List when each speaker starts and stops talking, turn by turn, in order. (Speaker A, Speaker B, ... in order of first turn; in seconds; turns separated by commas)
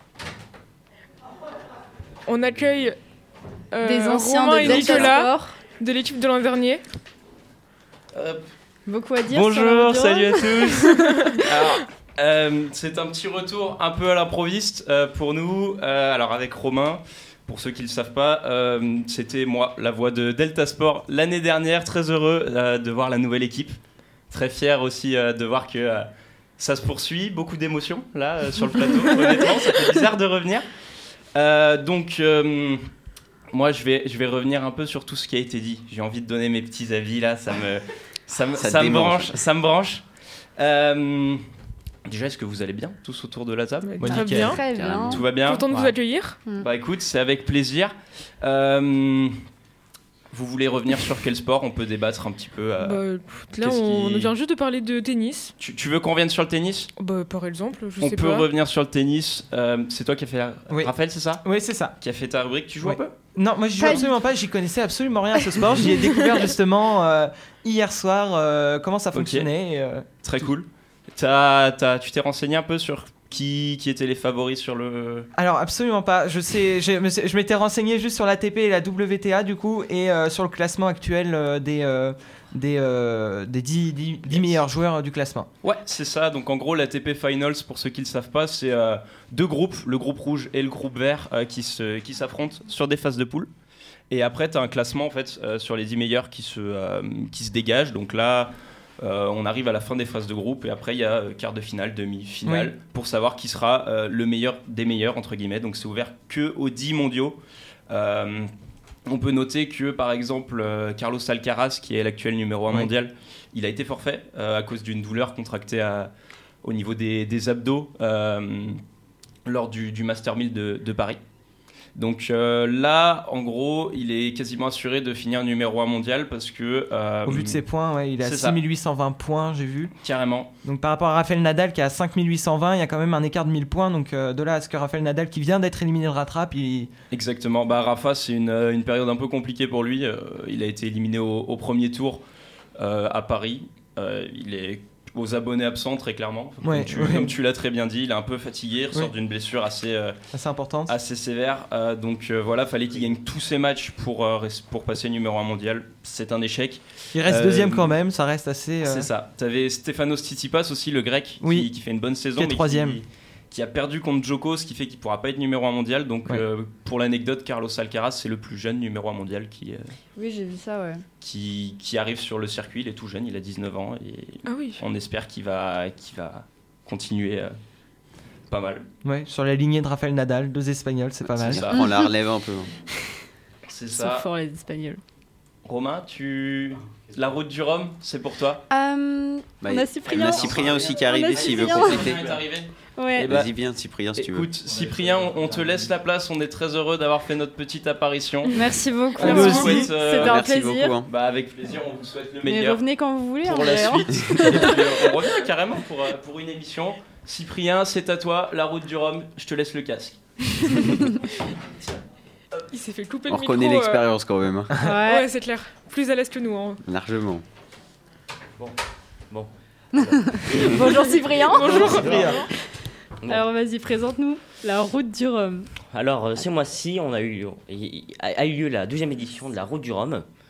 Speaker A: 2.2-3.0, Speaker A: 3.7-6.8, Speaker B: 3.8-5.6, Speaker C: 8.1-8.4, Speaker B: 8.9-11.3, Speaker C: 9.3-23.8, Speaker C: 24.3-30.6, Speaker C: 31.3-32.9, Speaker C: 33.5-40.0, Speaker D: 38.5-39.4, Speaker C: 40.6-41.4, Speaker C: 42.0-43.9, Speaker A: 43.8-44.6, Speaker E: 44.0-44.6, Speaker B: 44.0-45.2, Speaker D: 44.7-45.2, Speaker C: 45.1-45.7, Speaker A: 45.4-46.4, Speaker C: 46.6-49.4, Speaker C: 50.3-53.0, Speaker A: 52.8-55.5, Speaker C: 53.6-54.3, Speaker C: 55.6-56.9, Speaker A: 57.0-58.5, Speaker C: 58.0-61.4, Speaker E: 61.4-61.9, Speaker C: 62.0-63.1, Speaker E: 62.8-70.1, Speaker C: 69.1-69.5, Speaker C: 70.2-75.3, Speaker E: 75.3-85.7, Speaker C: 84.3-84.6, Speaker C: 85.6-93.5, Speaker C: 94.1-108.5, Speaker E: 102.4-102.7, Speaker C: 109.0-116.1, Speaker C: 116.6-118.8, Speaker C: 119.5-121.2, Speaker C: 122.0-127.6, Speaker E: 127.2-129.9, Speaker C: 128.2-128.6, Speaker C: 130.0-130.5, Speaker E: 130.6-136.9, Speaker C: 137.1-142.2, Speaker C: 142.8-150.2, Speaker E: 146.6-147.3, Speaker E: 150.3-150.9, Speaker C: 150.9-157.9, Speaker E: 157.1-159.1, Speaker C: 158.8-169.9, Speaker E: 161.4-161.7, Speaker E: 162.3-163.0, Speaker B: 170.2-171.0, Speaker C: 171.2-177.5, Speaker A: 174.4-174.8, Speaker C: 178.5-178.9, Speaker E: 179.0-181.6, Speaker D: 181.3-182.7, Speaker C: 181.4-181.8, Speaker B: 181.6-182.1, Speaker C: 183.7-184.2, Speaker B: 183.9-185.0, Speaker C: 185.6-188.6, Speaker B: 188.7-192.1, Speaker D: 189.6-192.4, Speaker C: 190.2-190.8, Speaker C: 191.3-193.5, Speaker B: 193.0-193.3, Speaker D: 193.3-194.5, Speaker C: 194.2-200.4, Speaker B: 198.5-201.0, Speaker E: 199.2-199.9, Speaker D: 200.1-201.1, Speaker C: 201.1-202.8, Speaker B: 202.4-205.2, Speaker C: 203.4-211.1, Speaker A: 212.7-214.0, Speaker D: 213.3-214.8, Speaker B: 214.8-215.3, Speaker A: 214.8-216.8, Speaker D: 216.8-217.4, Speaker F: 219.3-220.7, Speaker B: 219.9-225.7, Speaker A: 220.8-222.5, Speaker E: 221.7-222.5, Speaker F: 225.9-230.2